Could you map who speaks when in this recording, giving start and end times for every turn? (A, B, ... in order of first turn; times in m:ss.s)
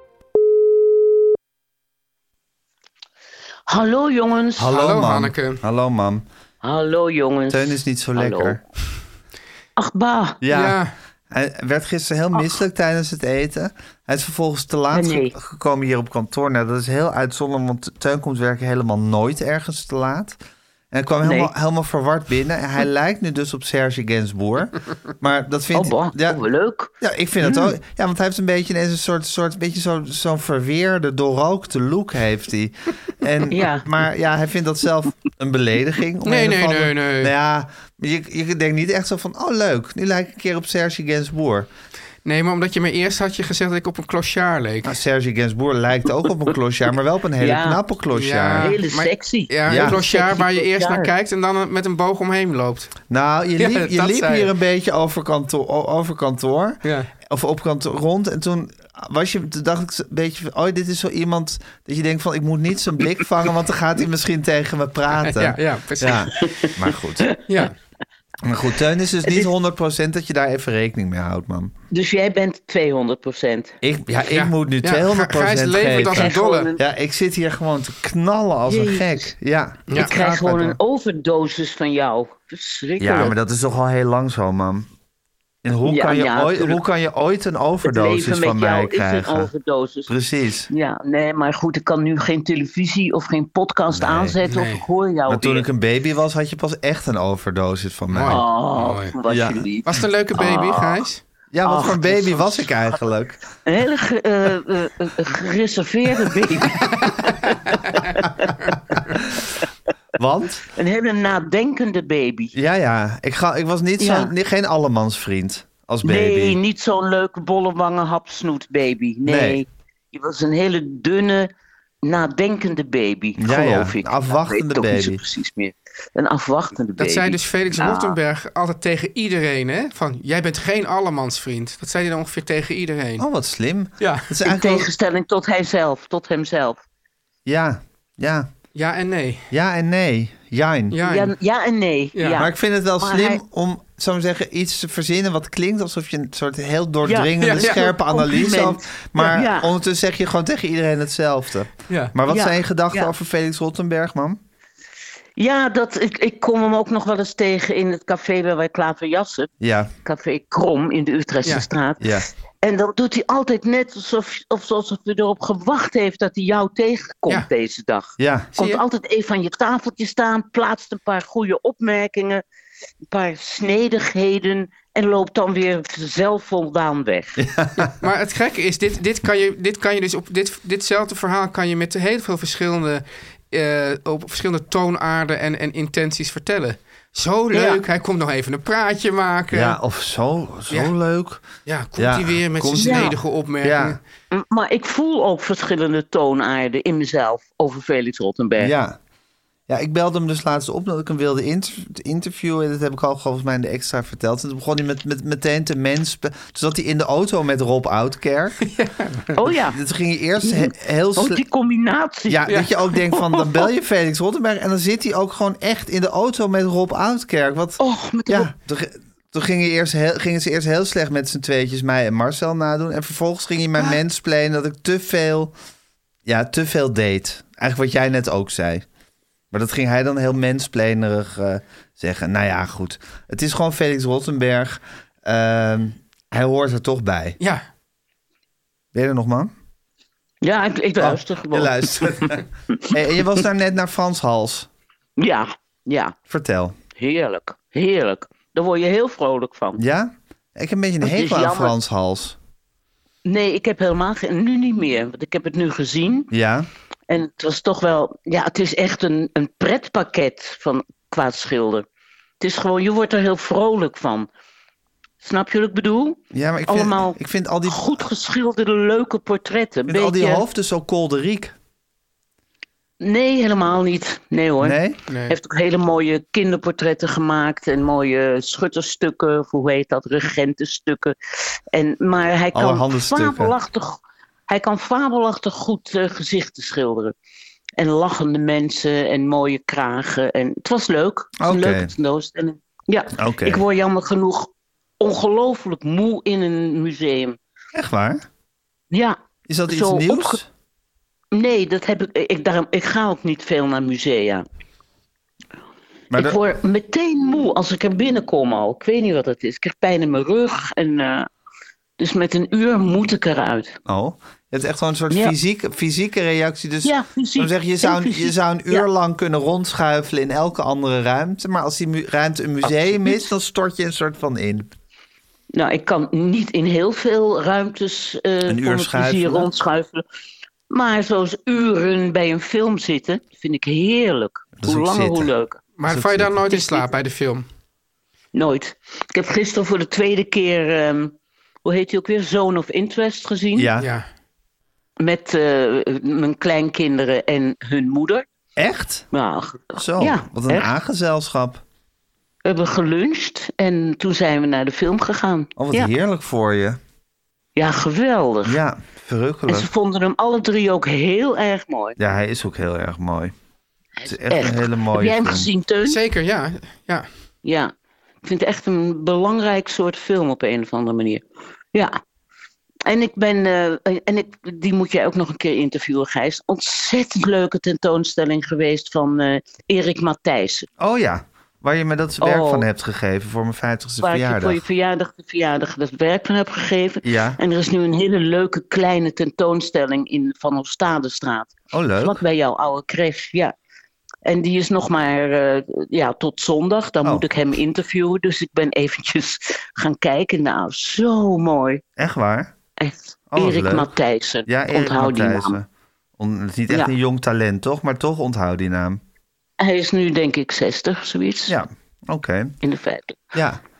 0:03.7-0:04.7 A
0:04.6-0:06.2 B
0:04.7-0:05.6 C
0:06.6-0:08.6 A
0:07.5-0:08.6 B
0:09.8-0:10.4 A
0:10.4-0:10.8 B
0:10.5-0:10.9 C
0:11.3-0:20.4 B
0:14.9-0:15.3 A
0:20.9-0:26.4 B
0:21.2-0:21.5 A
0:25.7-0:26.9 A
0:27.0-0:41.7 B
0:27.4-0:27.7 A
0:33.5-0:33.8 A
0:36.2-0:37.3 C
0:42.2-0:44.9 C
0:44.8-0:48.8 B
0:47.4-0:47.8 A
0:48.1-0:53.0 C
0:48.6-0:51.1 A
0:49.7-0:50.0 B
0:53.1-1:07.3 B
0:53.6-0:54.5 C
0:56.8-0:57.1 C
1:05.2-1:06.4 C
1:06.4-1:06.7 A
1:07.5-1:07.8 C
1:08.4-1:11.7 B
1:09.2-1:09.5 A
1:11.9-1:13.7 A
1:13.8-1:20.8 B
1:14.2-1:16.7 C
1:16.1-1:16.8 A
1:18.7-1:19.2 A
1:19.9-1:23.3 A
1:23.0-1:24.9 B
1:25.6-1:29.5 B
1:25.8-1:26.8 A
1:27.8-1:30.1 A
1:30.1-1:30.7 B
1:30.7-1:35.6 A
1:33.9-1:34.4 B
1:34.5-1:34.8 C
1:35.3-1:38.4 B
1:38.1-1:39.2 C
1:38.3-1:40.7 A
1:39.3-1:39.7 B
1:39.8-1:41.2 C
1:40.4-1:41.0 B
1:41.5-1:43.4 B
1:41.6-1:43.0 A
1:43.6-1:48.5 A
1:47.4-1:47.9 C
1:50.2-1:50.6 B
1:50.7-1:52.5 A
1:52.5-1:56.6 B
1:54.0-1:54.3 A
1:56.0-2:01.5 A
1:59.2-1:59.6 B
2:02.0-2:08.2 A
2:03.4-2:05.2 B
2:07.0-2:13.2 C
2:13.2-2:14.9 B
2:14.0-2:14.3 C
2:14.4-2:16.8 A
2:17.4-2:18.5 B
2:18.7-2:19.5 C
2:19.5-2:21.0 B
2:20.9-2:21.3 C
2:21.0-2:23.4 A
2:22.2-2:22.5 C
2:22.4-2:34.4 B
2:27.0-2:29.7 A
2:27.4-2:27.9 C
2:31.9-2:32.2 C
2:32.3-2:33.1 A
2:35.4-2:39.5 A
2:39.6-2:39.9 B
2:40.0-2:52.4 A
2:42.0-2:42.3 B
2:48.2-2:48.5 B
2:48.6-2:48.8 C
2:53.1-2:57.4 A
2:57.4-2:57.9 B
2:57.9-3:09.8 C
3:07.5-3:07.8 A
3:09.5-3:11.4 B
3:11.6-3:14.0 C
3:12.0-3:14.0 B
3:12.8-3:13.2 A
3:14.3-3:18.7 A
3:18.6-3:19.0 B
3:19.7-3:28.6 B
3:28.6-3:29.3 C
3:29.4-3:29.8 A
3:29.7-3:31.4 B
3:30.4-3:32.4 A
3:32.3-3:45.5 B
3:32.5-3:32.7 C
3:37.8-3:38.5 A
3:46.2-3:48.8 B
3:49.5-3:57.4 B
3:58.9-3:59.5 B
4:00.4-4:03.0 A
4:01.0-4:04.7 B
4:05.2-4:06.2 A
4:06.3-4:06.8 B
4:06.9-4:09.8 A
4:09.8-4:12.4 B
4:11.0-4:11.7 A
4:13.2-4:16.3 A
4:16.3-4:16.7 B
4:17.1-4:21.8 A
4:22.4-4:24.3 A
4:25.2-4:30.4 A
4:26.3-4:27.8 B
4:29.9-4:31.5 B
4:33.0-4:41.2 A
4:34.6-4:35.0 B
4:35.1-4:35.4 C
4:41.7-4:47.1 A
4:42.5-4:43.5 B
4:47.8-4:57.4 A
4:51.4-4:51.9 B
4:53.2-4:53.6 B
4:57.7-4:58.2 B
4:58.9-5:00.4 A
4:59.5-5:00.5 B
5:01.3-5:04.4 A
5:06.1-5:06.4 B
5:06.1-5:11.3 A
5:12.0-5:13.8 A
5:13.8-5:24.7 B
5:15.1-5:15.4 A
5:16.8-5:18.8 A
5:25.5-5:30.0 A
5:28.4-5:29.5 B
5:30.7-5:35.6 A
5:34.6-5:35.3 B
5:35.8-5:37.4 C
5:35.8-5:36.3 B
5:36.6-5:36.8 A
5:38.3-5:43.7 A
5:43.5-5:43.9 B
5:43.8-5:44.0 C
5:45.0-5:48.2 A
5:48.6-5:49.1 B
5:49.1-5:50.7 A
5:49.8-5:51.6 B
5:52.4-5:55.9 A
5:55.6-5:56.8 B
5:57.6-5:58.6 A
5:58.4-5:59.7 B
5:59.5-6:02.0 A
6:02.0-6:03.3 B
6:04.0-6:06.0 A
6:04.0-6:05.5 B
6:05.8-6:07.1 C
6:07.4-6:07.7 A
6:08.2-6:11.9 A
6:12.9-6:20.7 A
6:20.8-6:24.6 B
6:22.2-6:22.6 A
6:24.0-6:33.5 A
6:27.0-6:27.4 B
6:31.7-6:32.2 B
6:34.2-6:41.8 A
6:42.0-6:42.5 B
6:42.8-6:45.6 A
6:43.3-6:43.9 B
6:44.4-6:45.7 B
6:46.2-6:49.0 B
6:46.7-6:46.9 A
6:49.6-6:51.5 A
6:51.5-6:52.5 B
6:52.6-6:53.2 A
6:53.3-6:53.6 B